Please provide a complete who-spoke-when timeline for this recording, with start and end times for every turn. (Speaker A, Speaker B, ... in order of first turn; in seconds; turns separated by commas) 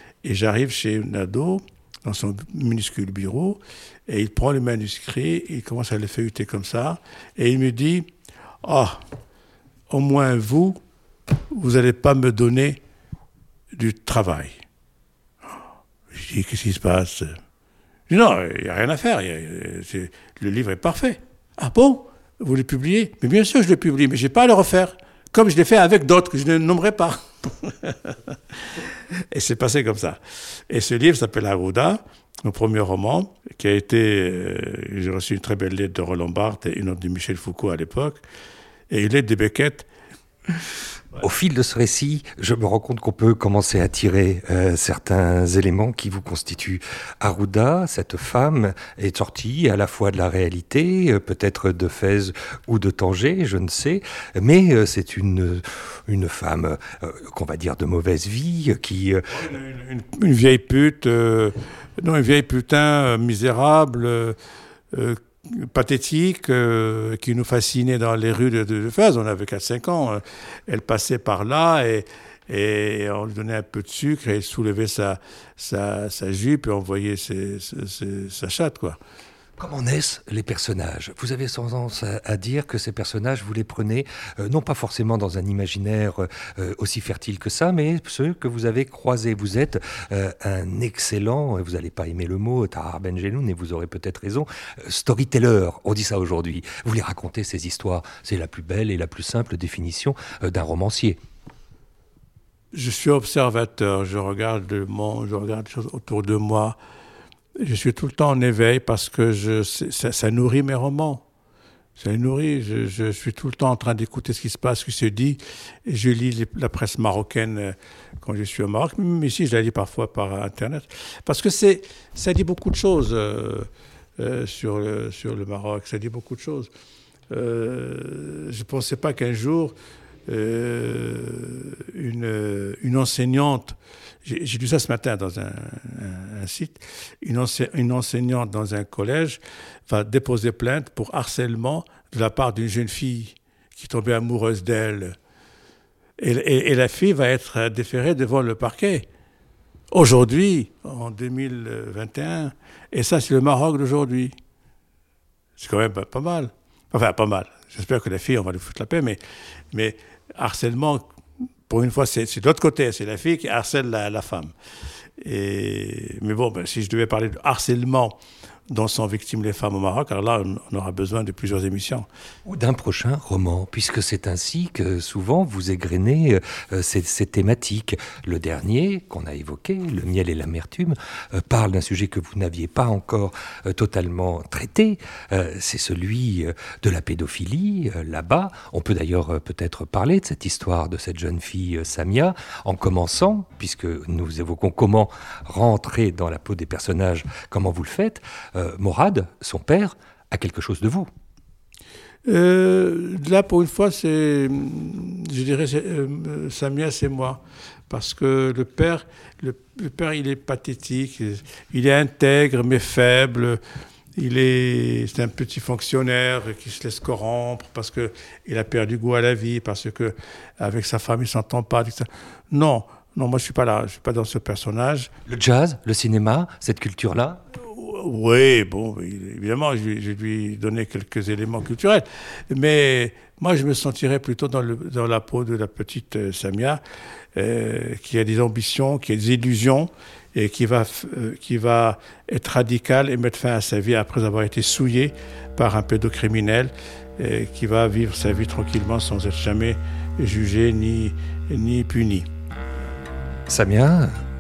Speaker A: 0.2-8.1, Speaker A: 8.6-9.0, Speaker A: 9.9-10.8, Speaker A: 11.5-12.8, Speaker A: 13.7-14.6, Speaker A: 16.1-17.4, Speaker A: 18.1-28.1, Speaker A: 29.3-38.2, Speaker A: 38.9-39.9, Speaker B: 41.2-59.2, Speaker A: 59.3-64.4, Speaker A: 64.9-79.0, Speaker B: 79.6-101.2, Speaker A: 102.7-106.8, Speaker A: 107.6-111.2, Speaker A: 112.0-126.7, Speaker A: 127.3-129.8, Speaker A: 130.3-145.2, Speaker A: 146.2-149.1, Speaker A: 149.9-154.3, Speaker A: 155.6-159.2, Speaker A: 159.7-161.1, Speaker A: 161.7-164.5, Speaker A: 165.2-168.2, Speaker A: 168.7-172.1, Speaker B: 172.5-201.1, Speaker A: 202.2-213.6, Speaker A: 214.2-225.1, Speaker B: 225.3-227.4, Speaker A: 227.6-236.8, Speaker A: 237.4-252.3, Speaker B: 253.5-254.1